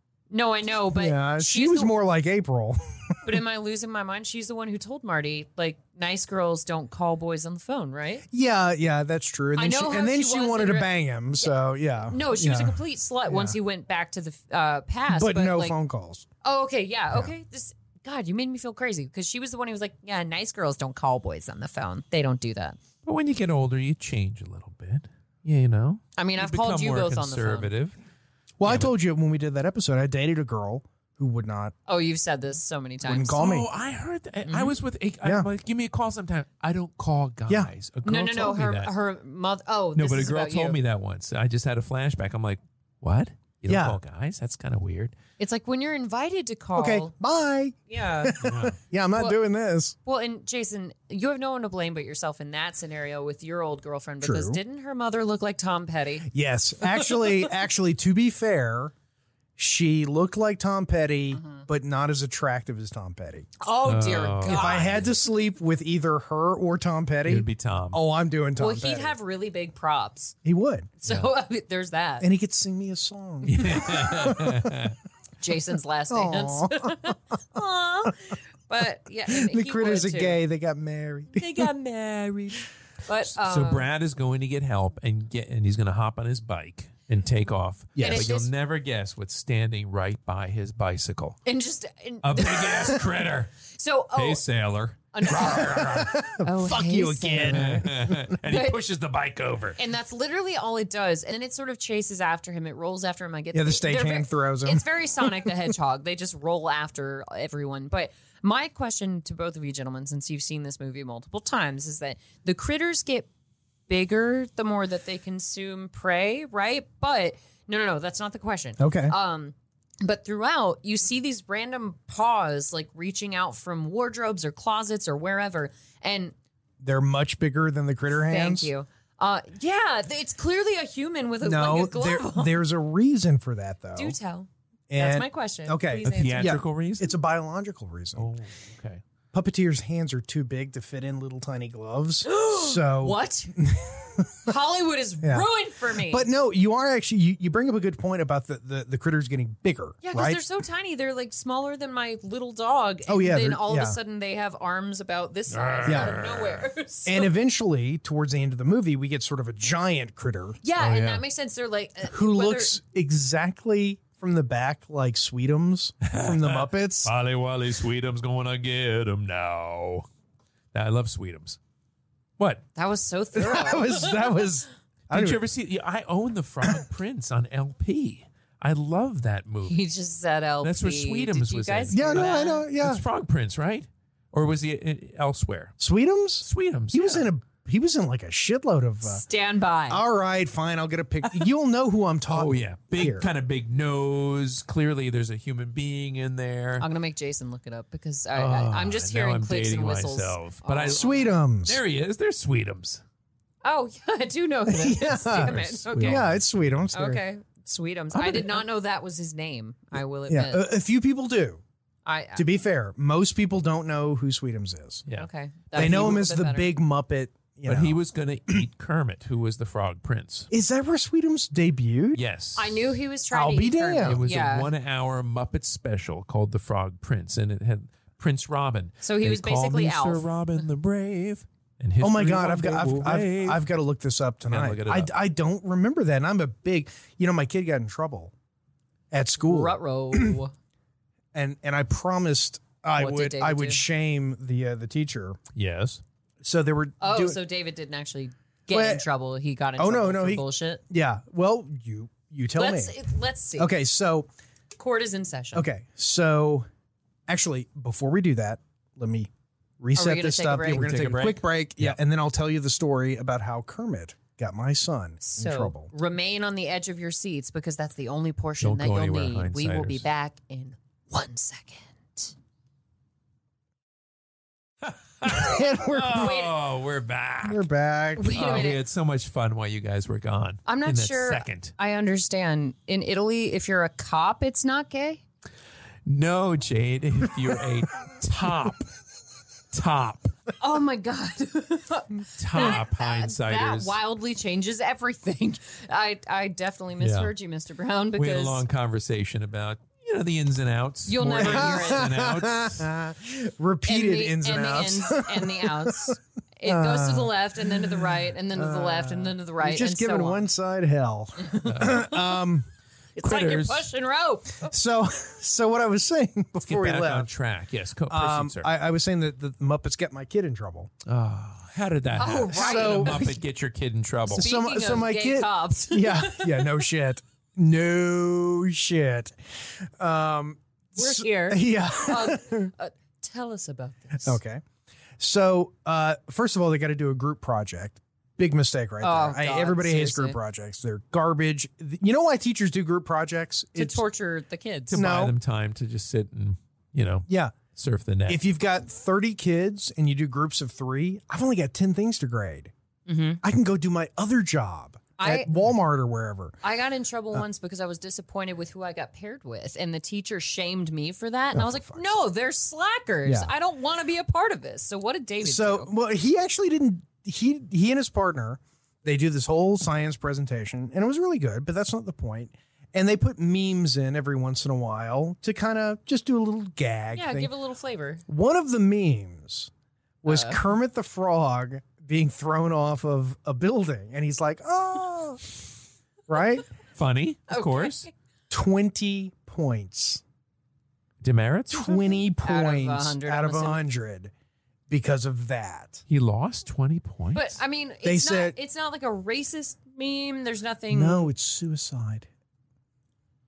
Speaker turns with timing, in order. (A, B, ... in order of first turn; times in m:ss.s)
0:00.3-0:01.9 A
0:00.9-0:03.2 B
0:03.2-0:08.2 A
0:08.3-0:13.6 B
0:09.6-0:11.5 A
0:12.1-0:15.8 A
0:15.1-0:16.3 B
0:16.4-0:22.8 A
0:23.0-0:28.0 C
0:26.2-0:27.7 A
0:28.6-0:31.7 B
0:28.6-0:28.9 C
0:31.9-0:33.4 A
0:33.0-0:33.7 B
0:33.4-0:38.9 C
0:34.4-0:34.8 A
0:38.0-0:40.8 A
0:40.0-0:45.2 C
0:43.7-0:44.0 B
0:45.4-0:47.1 A
0:46.8-0:50.0 B
0:47.9-0:48.4 A
0:48.4-0:48.8 C
0:50.0-0:56.3 A
0:54.2-0:54.6 B
0:56.3-0:58.9 B
0:56.8-0:57.5 A
0:59.6-1:03.5 B
1:01.4-1:01.6 A
1:03.6-1:05.0 A
1:03.8-1:05.1 C
1:04.4-1:09.2 B
1:07.2-1:08.0 C
1:08.6-1:10.4 A
1:10.4-1:10.9 B
1:11.0-1:12.3 A
1:11.1-1:11.3 C
1:12.2-1:14.8 B
1:13.4-1:15.0 C
1:15.4-1:20.4 A
1:16.1-1:17.2 B
1:19.3-1:21.7 B
1:21.3-1:23.9 A
1:23.3-1:31.4 C
1:28.0-1:28.3 B
1:28.0-1:28.5 A
1:31.4-1:33.1 A
1:32.2-1:33.5 C
1:33.7-1:34.4 A
1:34.2-1:36.2 C
1:35.1-1:37.9 A
1:35.3-1:38.3 B
1:37.5-1:39.8 C
1:38.4-1:38.8 A
1:39.8-1:53.3 A
1:43.5-1:45.6 B
1:53.9-2:06.3 A
1:58.8-1:59.2 B
2:06.8-2:08.7 B
2:08.2-2:12.6 A
2:11.4-2:14.2 B
2:14.0-2:16.6 A
2:14.9-2:18.3 B
2:16.0-2:17.2 C
2:18.2-2:19.0 C
2:19.3-2:24.5 B
2:22.2-2:23.7 A
2:24.4-2:26.3 A
2:25.2-2:30.4 B
2:30.0-2:37.3 A
2:33.1-2:34.0 B
2:35.5-2:36.7 C
2:35.8-2:36.2 B
2:37.1-2:40.6 B
2:40.6-2:42.8 A
2:40.8-2:41.2 C
2:42.1-2:47.1 B
2:46.0-2:50.1 C
2:50.7-2:51.6 C
2:52.4-2:52.6 C
2:52.8-2:54.5 A
2:53.3-2:55.4 B
2:55.1-2:59.8 C
2:59.7-3:02.7 A
3:00.6-3:05.8 C
3:01.9-3:03.0 B
3:05.8-3:09.2 B
3:06.4-3:07.3 C
3:09.0-3:10.0 A
3:09.9-3:13.3 B
3:12.3-3:16.9 C
3:16.8-3:21.3 A
3:18.3-3:21.1 C
3:20.9-3:21.8 B
3:21.6-3:23.0 C
3:23.6-3:26.3 A
3:24.7-3:27.2 B
3:25.5-3:26.3 C
3:26.9-3:30.7 A
3:28.1-3:28.6 C
3:30.3-3:31.6 B
3:32.0-3:32.5 A
3:32.4-3:35.0 B
3:35.1-3:36.8 A
3:35.7-3:38.6 B
3:37.7-3:40.5 C
3:40.5-3:42.2 B
3:42.1-3:42.9 C
3:42.6-3:44.7 A
3:43.3-3:44.2 B
3:44.0-3:53.6 C
3:49.0-3:50.6 A
3:52.0-3:58.3 B
3:54.5-3:55.1 C
3:59.1-4:00.4 B
3:59.4-4:00.5 A
4:01.3-4:05.4 B
4:03.0-4:03.8 A
4:05.6-4:06.0 C
4:06.4-4:07.4 B
4:07.0-4:10.8 A
4:08.7-4:09.1 B
4:09.8-4:13.0 B
4:12.6-4:13.7 A
4:13.6-4:14.3 B
4:14.8-4:15.7 A
4:15.5-4:16.7 B
4:17.3-4:25.9 B
4:20.0-4:21.0 A
4:20.8-4:22.0 C
4:25.2-4:32.4 A
4:28.6-4:30.0 C
4:35.2-4:37.6 C
4:35.3-4:36.5 B
4:36.1-4:36.5 A
4:37.4-4:38.7 B
4:38.2-4:38.8 A
4:38.3-4:41.7 C
4:40.7-4:45.2 A
4:46.1-4:48.9 C
4:49.7-4:50.3 C
4:50.6-4:58.6 A
4:52.4-4:54.0 C
4:57.0-4:57.3 C
4:58.2-5:02.9 C
5:01.1-5:02.1 A
5:01.3-5:12.7 B
5:03.9-5:10.4 A
5:11.4-5:12.2 A
5:11.6-5:12.1 C
5:13.2-5:14.7 A
5:13.2-5:13.9 C
5:14.7-5:17.3 B
5:16.7-5:18.7 C
5:18.1-5:20.9 B
5:21.1-5:24.5 C
5:22.2-5:23.4 A
5:22.5-5:23.4 B
5:24.3-5:32.7 B
5:24.3-5:26.8 A
5:31.0-5:34.4 A
5:34.2-5:34.6 B
5:35.2-5:44.0 B
5:39.0-5:40.4 A
5:43.8-5:45.0 A
5:44.9-5:48.4 C
5:44.9-5:45.4 B
5:47.3-5:47.6 B
5:48.3-5:52.7 B
5:53.1-5:53.4 A
5:53.4-5:56.6 B
5:55.2-5:55.5 A
5:56.6-6:05.9 A
6:01.5-6:02.2 B
6:03.2-6:03.5 B
6:05.4-6:17.5 B
6:17.1-6:18.2 A
6:18.3-6:19.7 B
6:20.2-6:25.5 B
6:20.3-6:20.6 A
6:26.3-6:26.7 B
6:27.0-6:28.1 C
6:27.5-6:28.1 A
6:28.5-6:30.2 B
6:31.2-6:32.0 C
6:31.7-6:34.3 B
6:32.2-6:33.9 A
6:34.9-6:36.0 B
6:36.1-6:37.6 C
6:37.3-6:41.3 A
6:38.0-6:38.6 B
6:40.9-6:42.3 B